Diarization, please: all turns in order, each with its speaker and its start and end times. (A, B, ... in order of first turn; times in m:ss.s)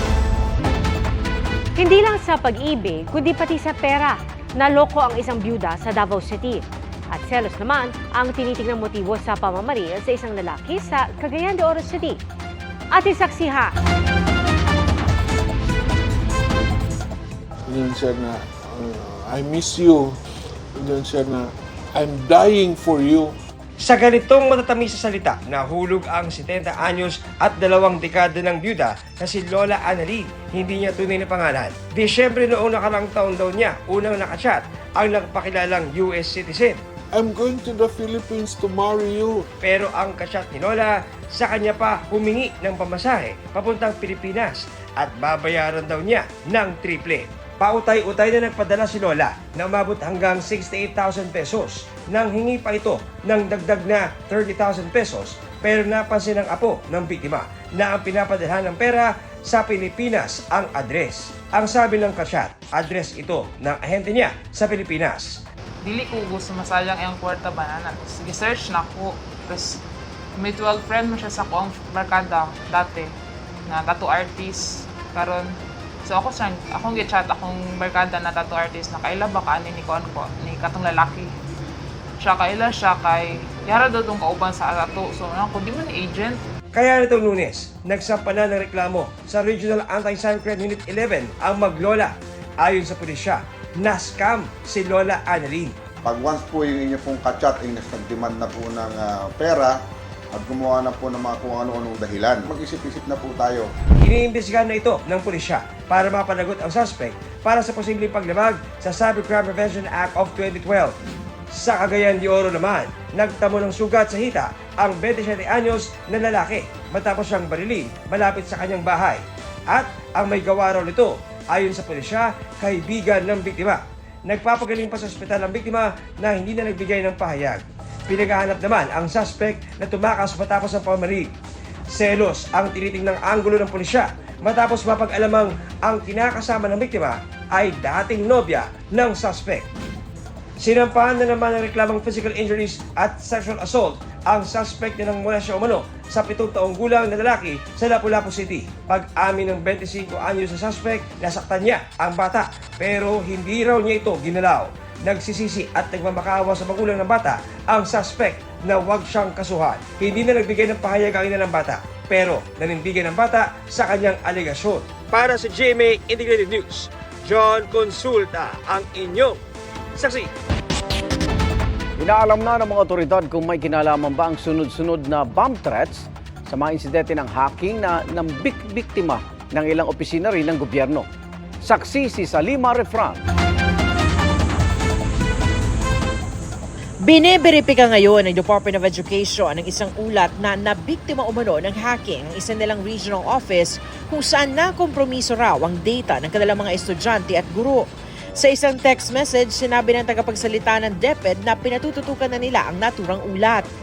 0:01.8-0:12.2 A
0:12.9-0:13.7 A
0:17.7-0:20.1 B
0:20.8-0:21.4 B
0:22.0-0:23.3 B
0:23.8-0:36.8 C
0:37.1-0:39.5 B
0:39.6-1:05.4 C
1:05.8-1:09.8 D
1:10.4-1:13.1 D
1:13.6-1:21.3 D
1:22.2-1:26.4 D
1:26.7-1:35.8 C
1:36.0-1:39.7 E
1:40.4-1:43.6 E
1:44.0-1:50.9 C
1:51.5-2:11.3 C
2:11.9-2:19.7 C
2:20.6-2:49.4 C
2:50.0-2:50.3 C
2:52.0-3:01.0 F
3:01.6-3:03.2 F
3:07.0-3:23.6 G